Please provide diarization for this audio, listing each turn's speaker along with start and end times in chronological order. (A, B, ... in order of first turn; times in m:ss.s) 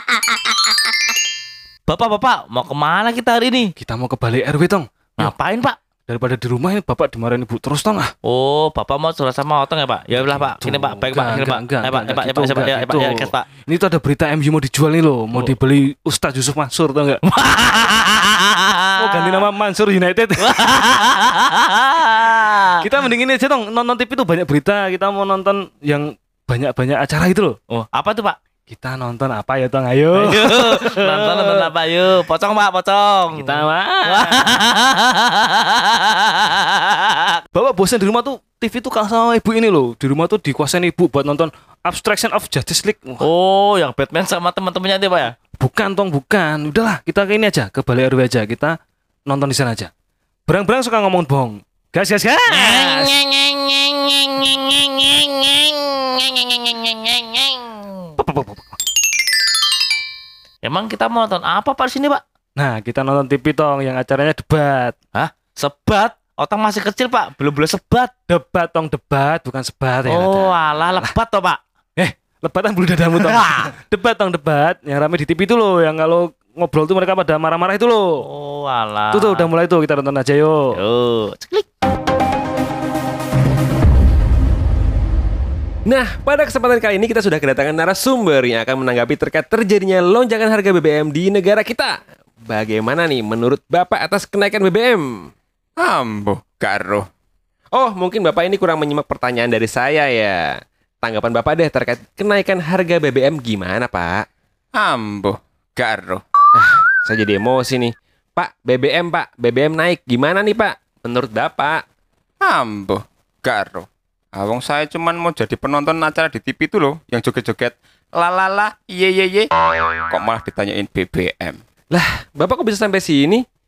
0:01.9-0:03.7 A
0:03.8-0:05.4 B
0:05.2-0:05.8 A
0:06.1-0:08.1 B
0:08.2-0:13.4 A
0:10.2-0:17.2 B
0:17.3-0:18.5 A
0:19.0-0:20.6 B
0:20.4-0:22.8 A
0:22.8-0:27.6 B
0:27.7-0:28.4 A
0:28.7-0:31.7 B
0:30.2-0:37.2 A
0:33.4-0:34.5 B
0:37.5-0:43.2 B
0:43.2-0:45.4 A
0:45.6-0:48.8 B
0:49.3-0:49.9 B
0:50.5-0:53.1 B
0:52.5-0:57.9 A
0:58.2-0:58.8 B
1:00.6-1:02.2 A
1:02.6-1:05.0 B
1:05.2-1:08.1 A
1:08.3-1:11.1 B
1:10.1-1:11.6 A
1:12.0-1:18.2 B
1:13.2-1:13.7 A
1:18.2-1:19.5 A
1:19.1-1:20.7 B
1:20.7-1:21.7 A
1:25.9-1:35.3 C
1:35.8-1:37.1 D
1:37.7-1:44.2 C
1:44.8-1:46.2 D
1:46.6-1:51.8 C
1:52.4-1:59.5 D
2:00.1-2:01.6 D
2:01.9-2:03.4 C